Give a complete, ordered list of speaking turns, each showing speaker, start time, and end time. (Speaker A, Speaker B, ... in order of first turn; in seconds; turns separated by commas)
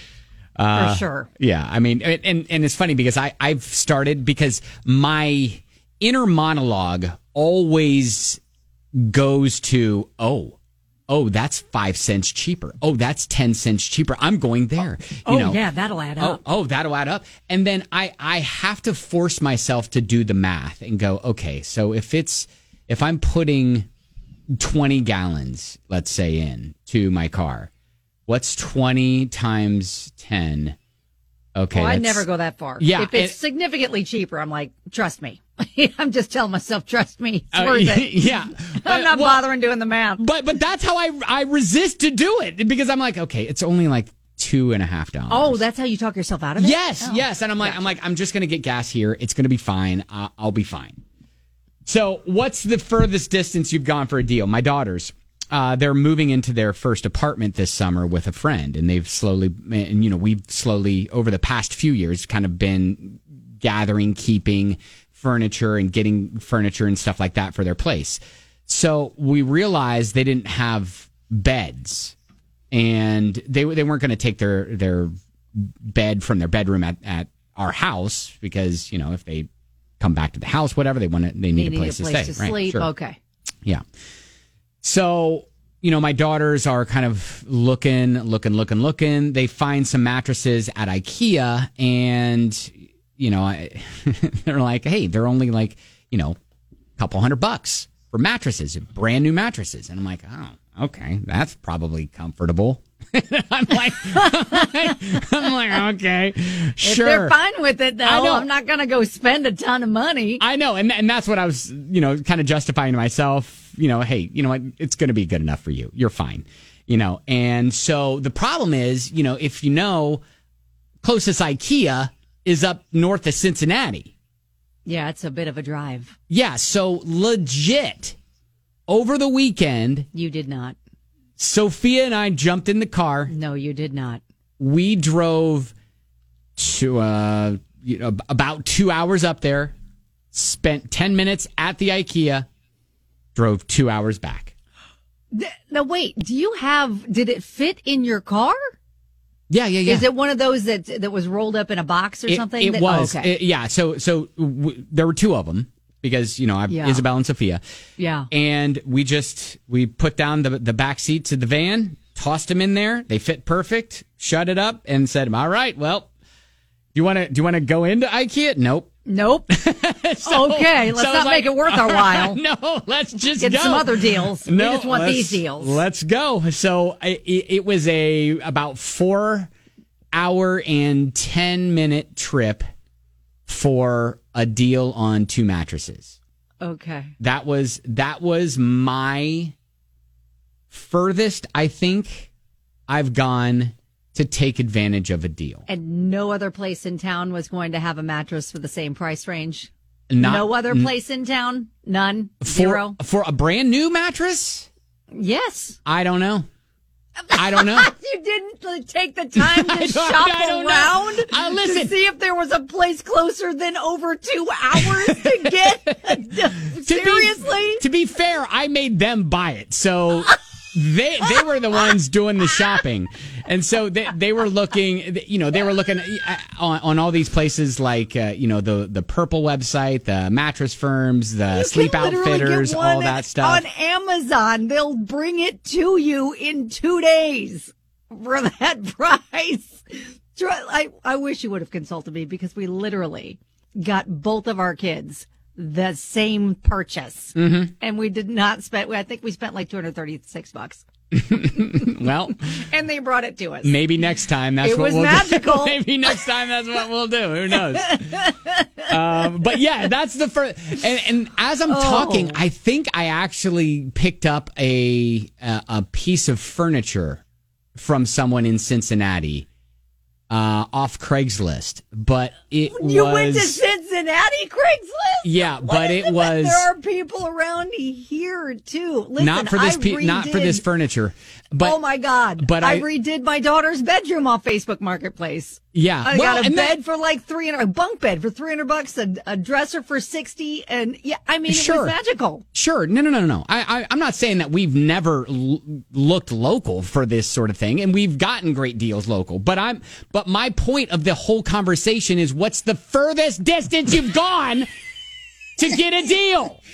Speaker A: 0.6-8.4, Speaker B: 0.7-1.3, Speaker A: 9.0-10.6, Speaker A: 11.1-15.6, Speaker B: 15.2-16.4, Speaker A: 16.2-23.9, Speaker A: 24.5-27.7, Speaker A: 28.3-30.8, Speaker A: 31.5-32.2, Speaker B: 31.7-38.2, Speaker A: 32.8-33.4, Speaker A: 37.5-39.4, Speaker B: 38.7-40.2, Speaker A: 40.2-45.6, Speaker B: 45.3-47.9, Speaker A: 46.6-51.0, Speaker A: 51.8-72.2, Speaker A: 72.7-79.5, Speaker A: 80.0-82.9, Speaker B: 81.5-83.2, Speaker A: 84.8-96.4, Speaker A: 97.0-107.3, Speaker B: 104.3-104.6, Speaker B: 106.8-110.4, Speaker A: 108.0-108.5, Speaker A: 110.4-120.2, Speaker A: 121.0-124.1, Speaker B: 124.8-126.2, Speaker A: 126.3-128.2, Speaker A: 128.9-130.1, Speaker B: 130.1-130.8, Speaker A: 131.4-133.3, Speaker B: 133.3-134.2, Speaker A: 134.6-135.7, Speaker A: 136.6-139.8, Speaker A: 140.3-142.5, Speaker A: 143.3-144.5, Speaker B: 145.3-148.7, Speaker A: 149.5-150.1, Speaker B: 149.8-153.3, Speaker A: 152.3-157.6, Speaker B: 156.7-157.0, Speaker B: 158.0-158.3, Speaker A: 158.3-166.1, Speaker A: 166.9-168.9, Speaker B: 169.1-169.5, Speaker A: 169.5-179.5, Speaker B: 170.2-172.4, Speaker B: 173.2-175.8, Speaker A: 180.1-182.6, Speaker A: 183.5-186.2, Speaker B: 186.6-187.1, Speaker A: 187.2-189.5, Speaker A: 190.7-192.3, Speaker A: 192.9-195.7, Speaker B: 195.7-203.0, Speaker A: 200.1-200.9, Speaker A: 202.4-204.7, Speaker B: 205.1-205.8, Speaker A: 205.8-206.5, Speaker B: 207.3-217.8, Speaker A: 207.3-207.9, Speaker A: 209.3-211.9, Speaker A: 214.8-233.6, Speaker B: 231.5-250.8, Speaker A: 247.3-247.7, Speaker A: 251.1-252.6, Speaker B: 252.4-253.8, Speaker A: 253.6-267.2, Speaker B: 254.6-255.8, Speaker B: 261.7-262.4, Speaker A: 267.7-269.5, Speaker A: 270.3-273.6, Speaker B: 272.7-280.6, Speaker A: 275.2-276.7, Speaker A: 279.2-281.8, Speaker B: 281.6-292.4, Speaker A: 282.4-282.8, Speaker A: 285.7-286.8, Speaker A: 291.5-291.9, Speaker A: 292.5-304.7, Speaker A: 305.6-306.6